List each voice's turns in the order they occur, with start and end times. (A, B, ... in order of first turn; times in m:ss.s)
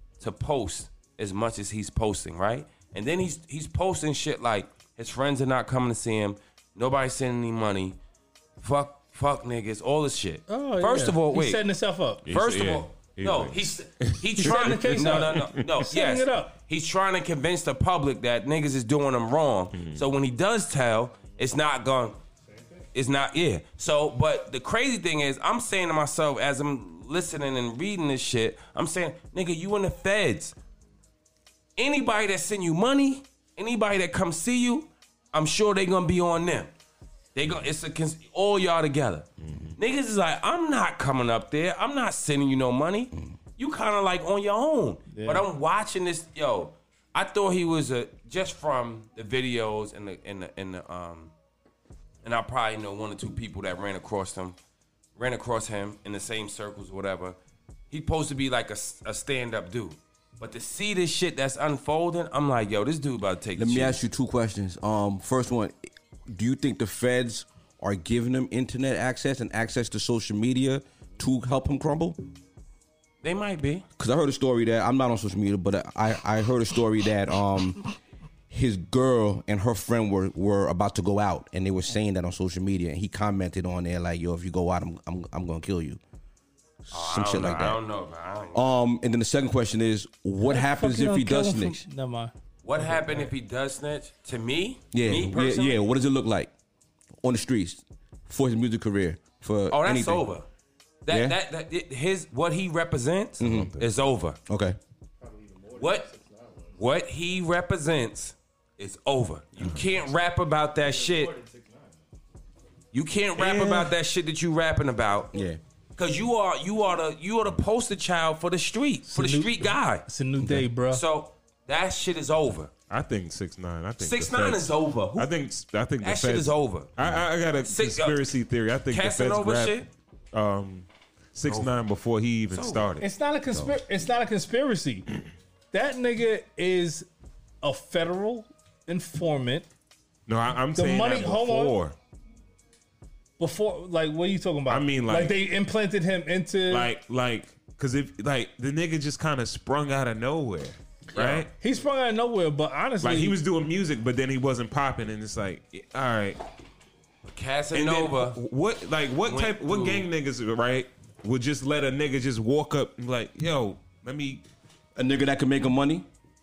0:00.2-0:08.0 A
0:08.6-0:11.6 A
0:10.5-0:12.2 B
0:12.2-0:15.6 C
0:12.3-0:22.2 A
0:14.4-0:16.5 B
0:19.7-0:20.0 C
0:22.9-0:30.5 A
0:31.8-0:36.7 A
0:37.3-0:51.3 A
0:39.4-0:39.7 C
0:45.1-0:45.4 B
0:52.2-0:54.6 A
0:55.2-0:57.4 A
0:57.9-1:04.0 A
1:03.6-1:12.2 D
1:13.2-1:13.8 A
1:14.0-1:17.8 D
1:18.5-1:26.0 D
1:26.9-1:27.8 D
1:26.9-1:28.7 A
1:28.5-1:31.8 D
1:30.4-1:32.3 B
1:32.6-1:35.8 A
1:34.9-1:36.5 D
1:37.2-1:40.3 D
1:39.7-1:40.4 A
1:41.0-1:44.4 A
1:41.1-1:41.4 D
1:43.4-1:43.8 D
1:44.5-1:44.8 D
1:45.7-1:46.1 A
1:46.7-1:51.4 A
1:52.9-1:55.3 A
1:53.4-1:53.8 C
1:55.3-1:55.6 D
1:56.0-2:00.0 A
1:59.1-2:01.0 B
2:00.4-2:00.6 D
2:00.9-2:02.7 A
2:02.9-2:09.8 C
2:04.0-2:05.3 A
2:06.0-2:06.9 A
2:07.6-2:08.3 A
2:08.9-2:09.9 A
2:10.3-2:13.1 C
2:11.4-2:11.7 A
2:12.5-2:12.9 A
2:13.0-2:15.0 B
2:15.7-2:17.1 B
2:17.6-2:19.7 B
2:20.3-2:22.0 C
2:20.8-2:21.8 B
2:23.4-2:26.9 B
2:24.7-2:25.4 C
2:26.7-2:31.5 C
2:31.1-2:31.5 A
2:31.5-2:33.4 B
2:33.0-2:36.4 C
2:37.2-2:38.4 A
2:37.7-2:44.4 C
2:39.2-2:40.1 A
2:45.0-2:46.1 D